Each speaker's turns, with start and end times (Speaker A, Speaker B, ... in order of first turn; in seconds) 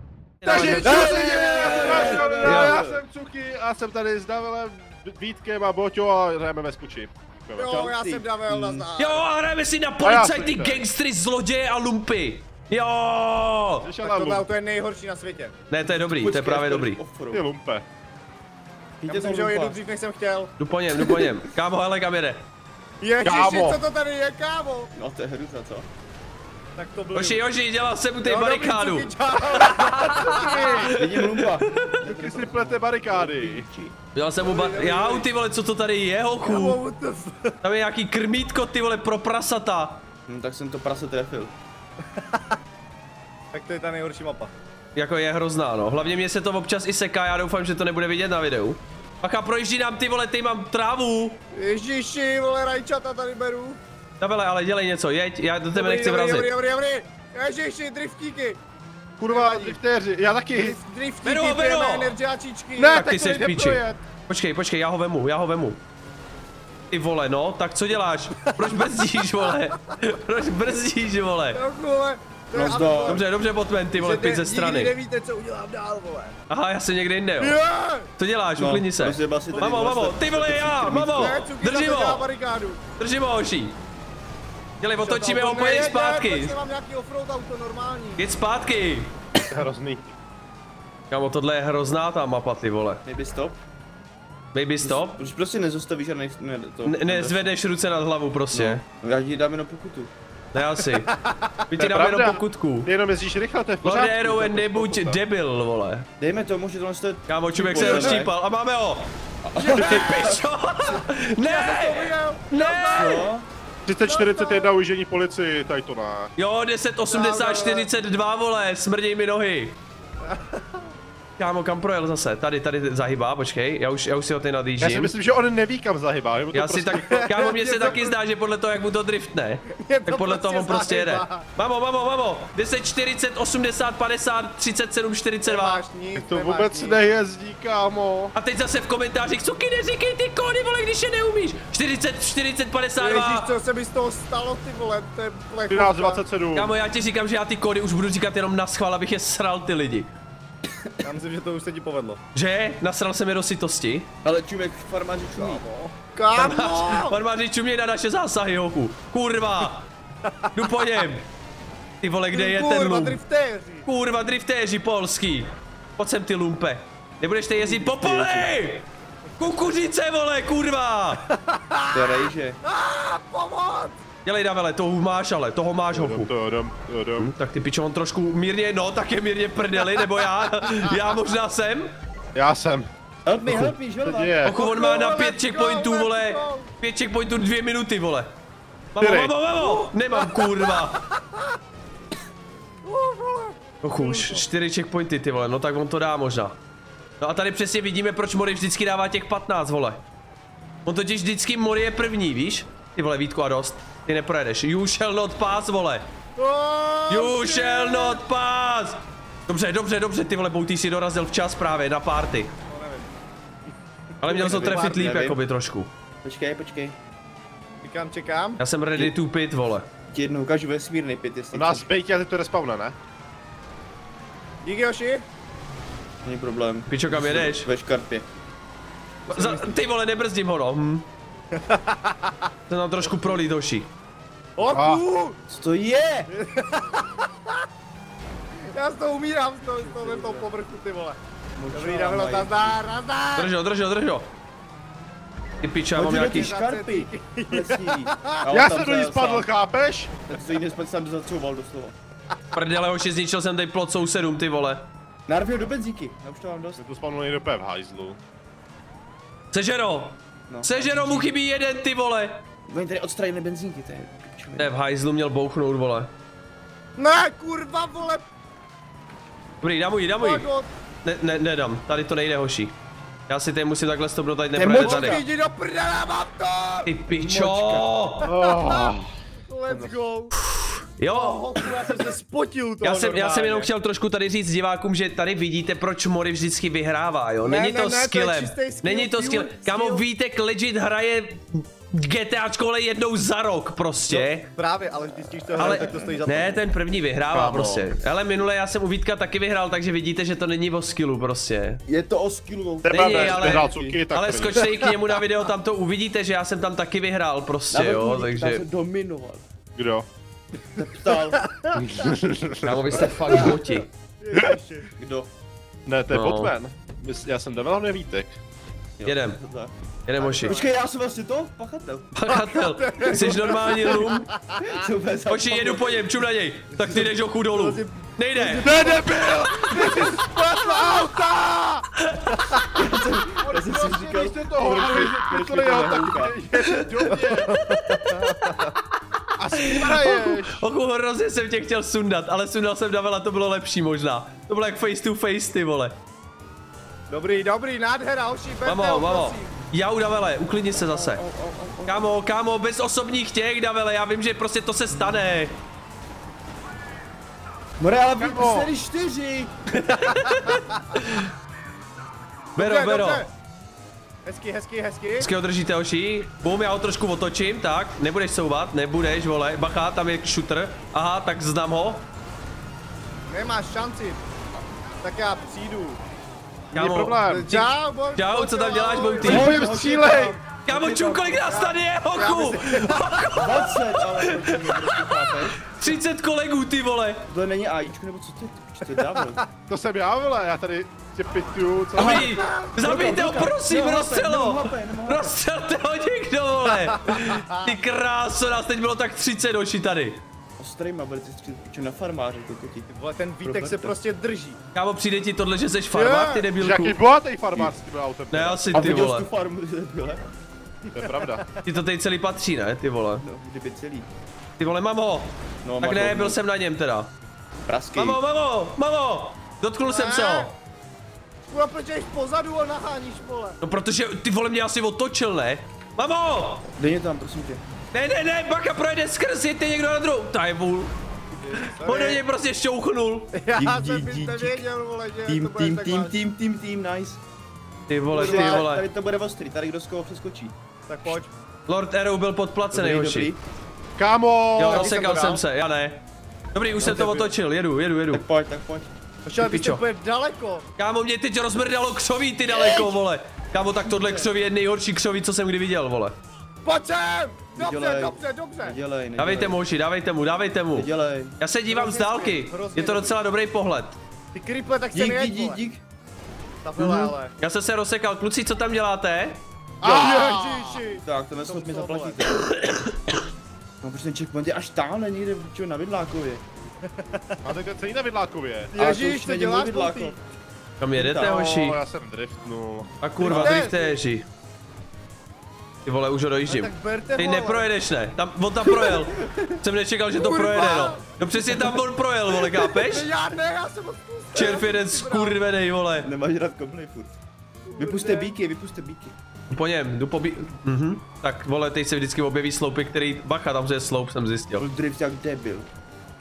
Speaker A: 0.4-2.8, 9.0-13.9, 15.7-17.0, 20.6-22.4, 27.1-32.0, 34.1-36.8, 37.6-40.0, 45.0-51.4, 54.2-56.5, 61.2-62.1, 62.9-65.8, 66.9-71.6, 73.0-74.9, 76.5-77.6, 78.2-82.3, 83.0-83.8, 84.8-86.5, 88.2-89.1, 91.1-93.0, 94.5-95.2, 96.8-98.8, 100.5-101.2, 101.7-102.9, 103.8-106.1, 107.3-109.1, 109.7-113.3, 116.4-119.8, 121.4-125.1, 126.5-135.8, 138.3-143.5, 146.5-150.1, 152.3-154.1, 156.3-159.9, 160.6-161.3, 162.0-163.2, 163.9-168.8, 169.4-171.3, 174.2-176.3, 177.2-181.9, 184.4-188.3, 188.9-191.0, 193.8-196.6, 197.2-200.0, 200.9-206.1, 207.1-212.5, 214.2-215.9, 218.6-219.9, 226.9-227.7, 229.3-231.1, 232.7-233.9, 243.4-244.3, 245.6-246.5, 252.5-254.8, 259.5-262.4, 264.6-266.1, 269.6-270.5, 271.0-272.7, 273.3-275.2, 276.9-278.3, 280.4-281.7, 282.8-294.5, 295.6-301.8, 302.9-308.6, 312.6-313.9, 316.1-316.5, 319.1-319.4, 320.1-320.6, 322.1-324.3, 325.3-328.7, 332.1-332.3, 339.5-345.9, 348.7-351.2, 351.9-355.6, 359.7-361.3, 362.6-363.2, 365.2-372.0, 376.7-379.7, 380.6-387.3, 392.0-400.2, 404.7-407.0, 408.3-409.3, 411.6-413.2, 414.6-415.3, 415.8-417.1, 418.0-420.5, 423.6-426.7, 427.9-430.9, 431.6-433.3, 437.9-438.9, 441.7-443.3, 444.6-446.0, 446.5-448.2, 449.4-449.8, 450.8-456.2, 459.2-460.9, 461.4-464.0, 466.8-469.4, 472.3-473.0, 480.8-481.8, 483.0-484.2, 485.9-493.1, 494.3-496.1, 499.5-504.7
Speaker B: 0.5-7.7, 10.0-10.8, 13.8-14.4, 17.3-17.9, 23.2-23.8, 30.0-31.0, 32.0-33.7, 59.2-60.8, 62.8-64.0, 89.5-90.1, 101.8-105.2, 113.9-116.3, 124.8-127.1, 136.2-138.3, 145.7-146.7, 175.9-177.3, 182.3-182.9, 184.0-184.6, 189.0-189.3, 221.5-223.0, 234.7-235.0, 248.5-250.2, 256.8-258.2, 278.2-279.1, 297.3-297.9, 302.8-304.7, 309.8-310.1, 311.7-313.5, 315.9-318.3, 328.6-331.8, 333.4-337.9, 339.4-340.6, 358.2-358.7, 376.7-377.5, 379.2-380.4, 389.7-392.3, 406.6-409.1, 410.9-411.5, 444.0-444.9, 469.8-470.8, 477.4-478.7, 481.2-482.9
Speaker C: 0.5-2.6, 7.5-9.2, 14.0-15.5, 19.1-20.5, 23.0-24.9, 26.8-27.4, 28.2-30.9, 34.4-35.3, 36.4-37.6, 42.2-42.6, 43.5-44.5, 51.5-53.8, 55.7-58.6, 59.3-59.8, 60.6-63.1, 71.5-73.2, 74.0-76.4, 77.4-78.1, 81.1-82.8, 85.0-88.2, 107.8-108.2, 109.6-110.4, 111.4-113.2, 114.0-114.7, 117.1-117.9, 120.3-120.8, 127.0-128.1, 129.7-131.5, 135.5-137.0, 143.0-146.2, 151.0-152.2, 155.4-157.2, 160.3-160.9, 162.3-163.9, 171.3-174.0, 184.6-186.7, 189.6-191.4, 192.8-194.4, 206.4-208.2, 212.7-213.1, 214.2-215.0, 217.8-218.6, 224.7-225.2, 229.3-229.8, 231.6-232.5, 234.6-235.4, 236.3-237.5, 238.7-241.2, 241.7-243.5, 246.3-248.4, 267.0-268.2, 270.2-270.7, 274.7-276.9, 278.2-278.9, 279.5-280.3, 281.1-283.1, 287.4-290.0, 294.1-296.6, 311.4-311.8, 314.2-314.9, 320.2-320.7, 322.3-324.8, 326.8-331.2, 337.1-338.7, 347.1-349.5, 360.1-360.8, 362.6-363.3, 364.2-365.3, 373.3-374.2, 375.0-376.0, 377.3-379.6, 381.4-383.4, 392.3-392.7, 397.0-397.7, 402.9-404.6, 405.9-406.5, 419.9-420.5, 421.5-423.6, 431.5-432.2, 433.3-436.2, 438.2-438.6, 440.9-441.3, 444.6-445.4, 446.8-447.3, 449.3-450.7, 456.6-458.8, 461.7-463.2, 464.3-465.6, 466.6-467.3, 469.8-472.2, 477.1-477.4, 478.7-480.1, 483.3-484.0, 486.5-487.7, 490.1-491.8, 492.4-495.4, 497.7-498.3
Speaker D: 0.7-3.0, 7.6-8.9, 15.9-17.4, 19.0-19.8, 21.0-21.4, 24.9-25.9, 30.9-34.0, 40.3-41.5, 72.5-73.2, 78.6-81.4, 93.0-93.6, 94.8-97.5, 98.5-100.1, 106.2-108.3, 109.4-110.4, 112.9-113.5, 154.2-155.6, 167.6-168.5, 171.9-172.6, 183.3-184.5, 214.2-215.4, 216.2-217.0, 220.1-221.9, 226.2-228.3, 235.5-236.3, 239.7-240.5, 241.6-242.8, 246.0-249.5, 250.3-252.0, 255.3-256.8, 260.5-261.4, 262.7-264.7, 274.5-275.2, 277.1-277.9, 282.9-283.7, 295.5-296.1, 301.9-304.0, 307.7-309.4, 310.8-311.4, 314.9-315.3, 319.0-319.7, 320.2-322.2, 323.1-324.0, 324.6-326.0, 332.7-337.1, 350.8-352.1, 357.8-359.5, 379.2-381.4, 383.4-385.9, 387.3-389.4, 391.9-395.4, 400.6-403.9, 408.7-410.3, 413.2-414.1, 415.6-416.4, 417.7-418.2, 426.7-427.6, 431.4-431.7, 433.6-434.6, 435.3-437.2, 438.1-440.5, 442.7-443.4, 448.1-448.9, 452.5-453.0, 453.8-454.3, 457.6-459.6, 460.7-461.4, 464.9-465.8, 470.9-472.5, 473.8-476.4, 478.8-480.2, 480.9-481.4, 488.9-489.6, 496.0-497.2, 497.8-499.2, 504.6-505.7